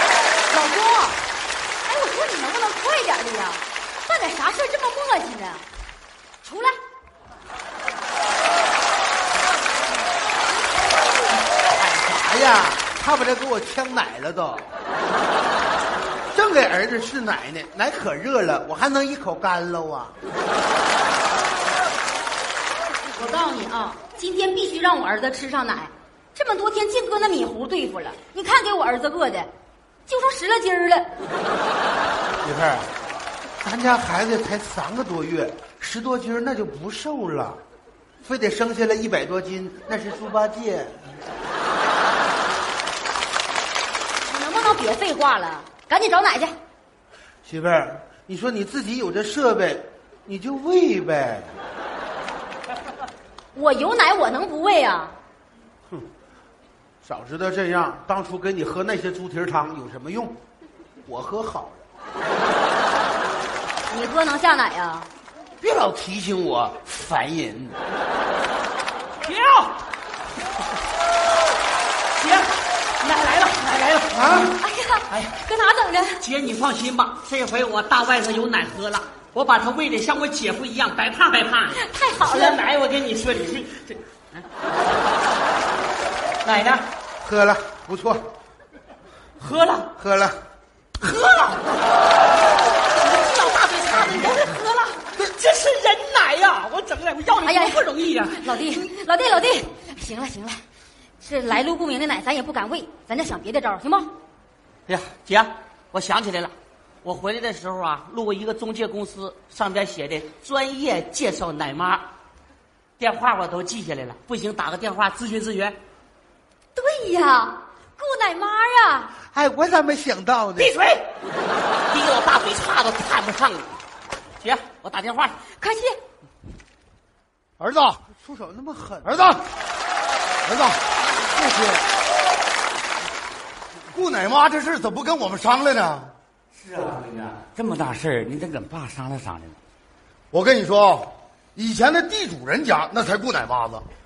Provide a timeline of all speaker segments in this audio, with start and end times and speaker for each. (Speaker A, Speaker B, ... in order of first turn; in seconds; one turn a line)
Speaker A: 0.5-1.2
Speaker A: 1.8-5.6
Speaker A: 6.4-6.7
Speaker B: 11.7-14.7
Speaker B: 16.3-20.1
Speaker A: 23.1-29.5
Speaker A: 30.1-31.1
Speaker B: 32.4-32.9
Speaker B: 33.6-37.6
Speaker B: 38.2-41.1
Speaker A: 44.2-46.5
Speaker B: 47.4-51.5
Speaker A: 53.5-55.1
Speaker B: 57.0-60.4
Speaker B: 61.0-61.8
Speaker A: 63.9-65.1
Speaker B: 65.6-67.8
Speaker C: 69.2-69.7
Speaker C: 72.2-72.5
Speaker C: 73.0-74.2
Speaker B: 74.1-74.5
Speaker A: 74.6-76.2
Speaker C: 76.2-84.4
Speaker A: 81.8-82.6
Speaker C: 86.4-86.8
Speaker B: 87.2-88.2
Speaker C: 89.4-89.9
Speaker B: 90.0-90.4
Speaker C: 91.1-91.6
Speaker C: 92.9-98.8
Speaker A: 97.4-100.6
Speaker A: 101.2-104.1
Speaker C: 104.9-112.0
Speaker C: 113.0-115.8
Speaker A: 116.7-119.1
Speaker B: 119.3-120.7
Speaker C: 120.6-121.0
Speaker C: 121.9-123.7
Speaker C: 124.4-125.4
Speaker A: 125.6-126.0
Speaker D: 127.6-127.9
Speaker B: 127.7-129.3
Speaker D: 129.1-129.4
Speaker D: 130.5-130.8
Speaker B: 131.3-131.8
Speaker D: 133.9-136.1
Speaker E: 136.8-139.6
Speaker D: 140.3-143.8